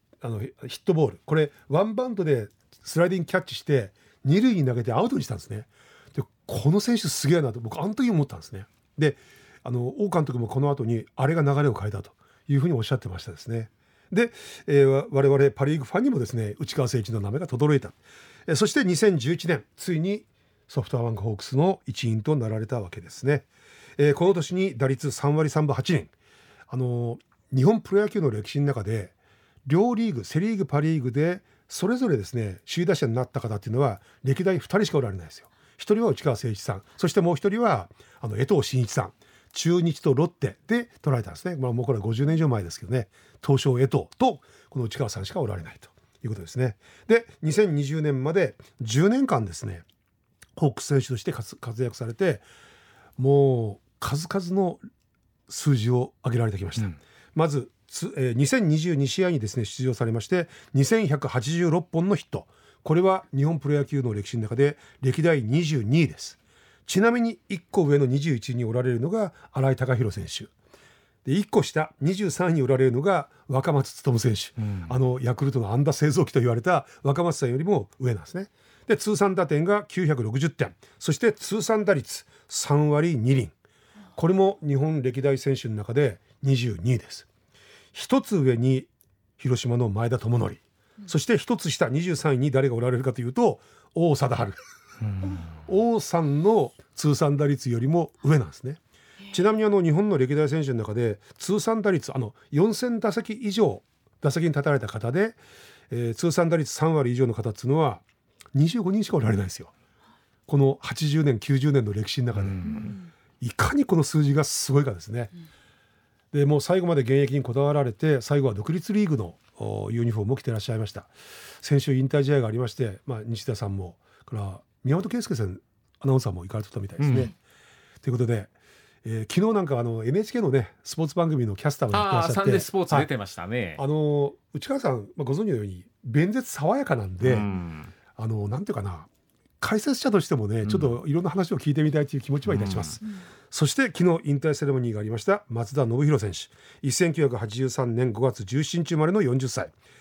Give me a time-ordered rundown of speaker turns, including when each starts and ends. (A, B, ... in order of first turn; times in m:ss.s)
0:00.2-0:23.5 A
0:24.0-0:26.1 A
0:26.7-0:29.1 A
0:29.6-0:49.8 A
0:50.6-0:52.4 A
0:53.2-0:54.8 A
0:55.5-1:10.5 A
1:11.2-1:23.5 A
1:14.6-1:14.9 B
1:24.1-1:27.3 A
1:27.9-1:34.6 A
1:35.0-1:35.5 B
1:35.5-1:45.4 A
1:45.9-1:48.0 A
1:48.5-1:49.7 A
1:50.5-1:52.8 A
1:52.3-1:53.0 B
1:53.4-1:55.3 A
1:56.3-2:07.3 A
2:07.0-2:07.3 B
2:08.0-2:08.5 A
2:09.0-2:13.1 A
2:11.9-2:13.8 B
2:13.8-2:17.5 A
2:17.2-2:17.9 B
2:18.1-2:19.1 A
2:19.6-2:29.7 A
2:20.6-2:21.0 B
2:22.4-2:23.0 B